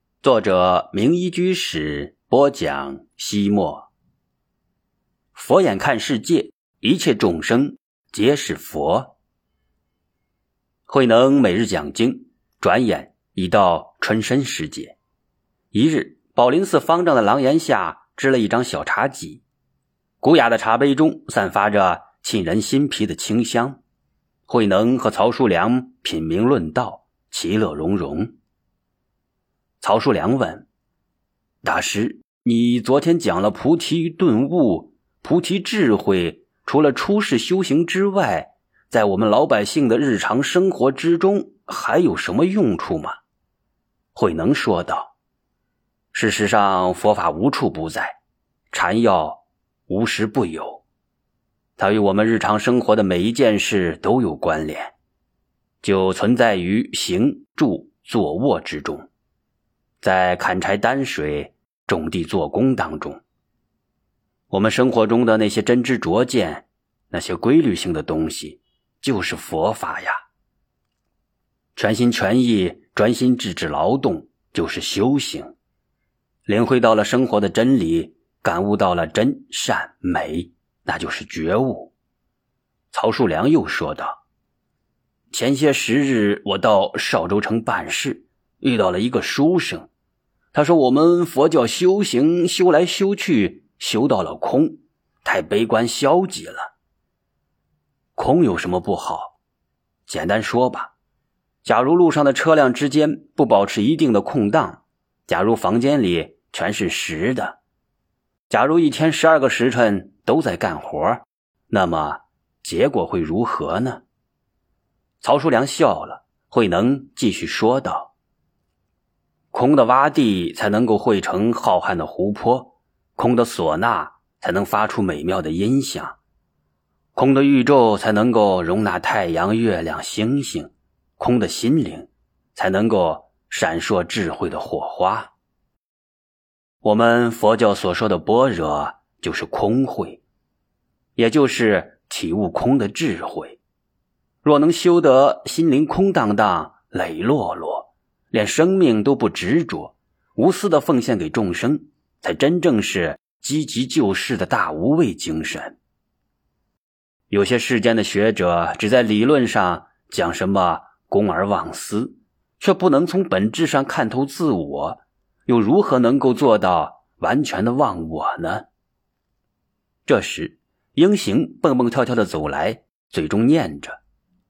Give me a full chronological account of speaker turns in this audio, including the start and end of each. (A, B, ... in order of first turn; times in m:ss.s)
0:00.2-0:03.9 A
0:05.3-0:09.2 A
0:10.9-0:15.0 A
0:15.7-0:19.4 A
0:20.2-0:23.8 A
0:24.5-0:28.3 A
0:29.8-0:30.7 A
0:31.6-0:43.2 A
0:44.1-0:45.1 A
0:46.1-0:48.2 A
0:48.7-0:50.8 A
0:51.8-0:54.9 A
0:55.8-0:59.1 A
1:00.0-1:03.2 A
1:04.5-1:10.2 A
1:11.8-1:15.5 A
1:16.5-1:21.9 A
1:22.9-1:24.2 A
1:25.3-1:29.9 A
1:30.5-1:36.7 A
1:38.2-1:39.4 A
1:40.1-1:40.9 A
1:41.6-1:47.6 A
1:48.5-1:54.0 A
1:55.2-1:58.1 A
1:59.5-2:06.2 A
2:07.2-2:15.3 A
2:16.8-2:20.2 A
2:21.2-2:23.6 A
2:24.4-2:35.8 A
2:37.3-2:48.7 A
2:50.1-2:54.0 A